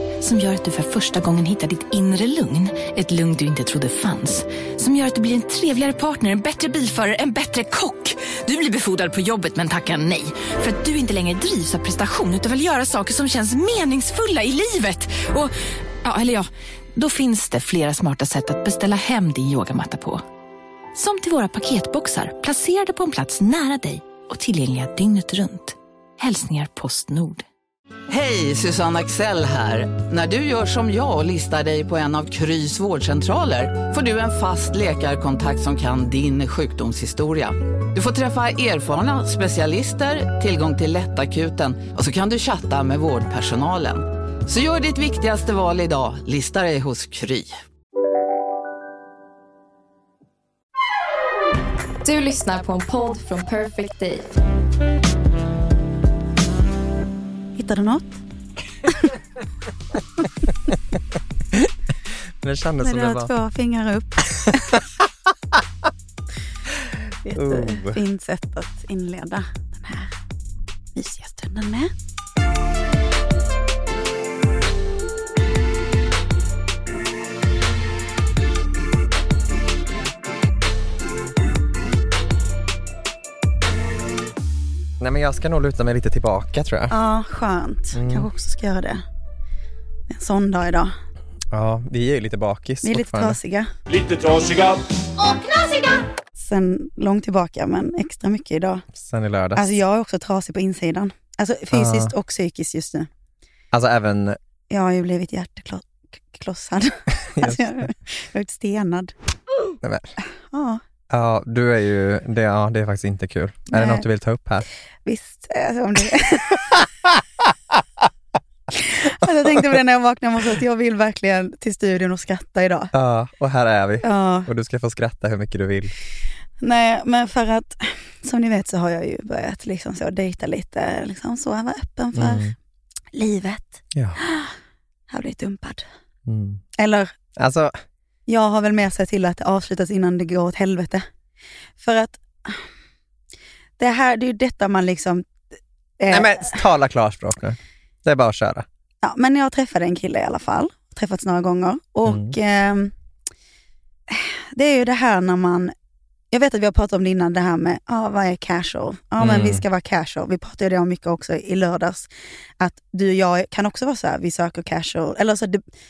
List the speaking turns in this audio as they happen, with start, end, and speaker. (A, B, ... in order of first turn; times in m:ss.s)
0:00.2-0:15.5 A
0:16.0-0:20.2 A
0:20.9-0:27.4 A
0:28.1-0:47.6 B
0:52.0-0:54.3 C
0:57.6-0:58.2 D
1:02.4-1:03.3 E
1:02.8-1:04.8 D
1:07.2-1:10.1 D
1:07.3-1:08.0 E
1:10.9-1:11.9 D
1:25.0-1:26.9 E
1:26.9-1:29.0 D
1:27.9-1:28.3 E
1:30.1-1:30.9 D
1:31.5-1:33.4 E
1:32.8-1:33.7 D
1:36.4-1:38.8 D
1:38.9-1:39.6 E
1:39.5-1:43.1 D
1:41.7-1:42.1 E
1:43.7-1:44.4 E
1:44.7-1:49.1 D
1:47.3-1:47.7 E
1:49.8-1:50.1 E
1:50.5-1:50.8 D
1:51.1-1:54.6 E
1:53.7-1:54.0 D
1:55.0-1:56.8 D
1:58.8-2:02.9 D
2:02.9-2:05.9 E
2:04.0-2:04.5 D
2:06.6-2:12.5 D
2:12.1-2:12.5 E
2:13.1-2:14.5 D
2:13.9-2:14.2 E
2:15.1-2:15.8 D
2:16.2-2:16.6 E
2:16.8-2:17.1 D
2:17.4-2:17.8 E
2:18.3-2:21.0 D
2:21.8-2:22.6 D
2:23.8-2:25.3 D
2:26.0-2:26.6 D
2:26.1-2:28.6 E
2:29.0-2:32.9 D
2:32.0-2:32.3 E
2:34.1-2:35.7 D
2:36.3-2:42.1 D
2:39.2-2:39.6 E
2:42.6-2:45.6 D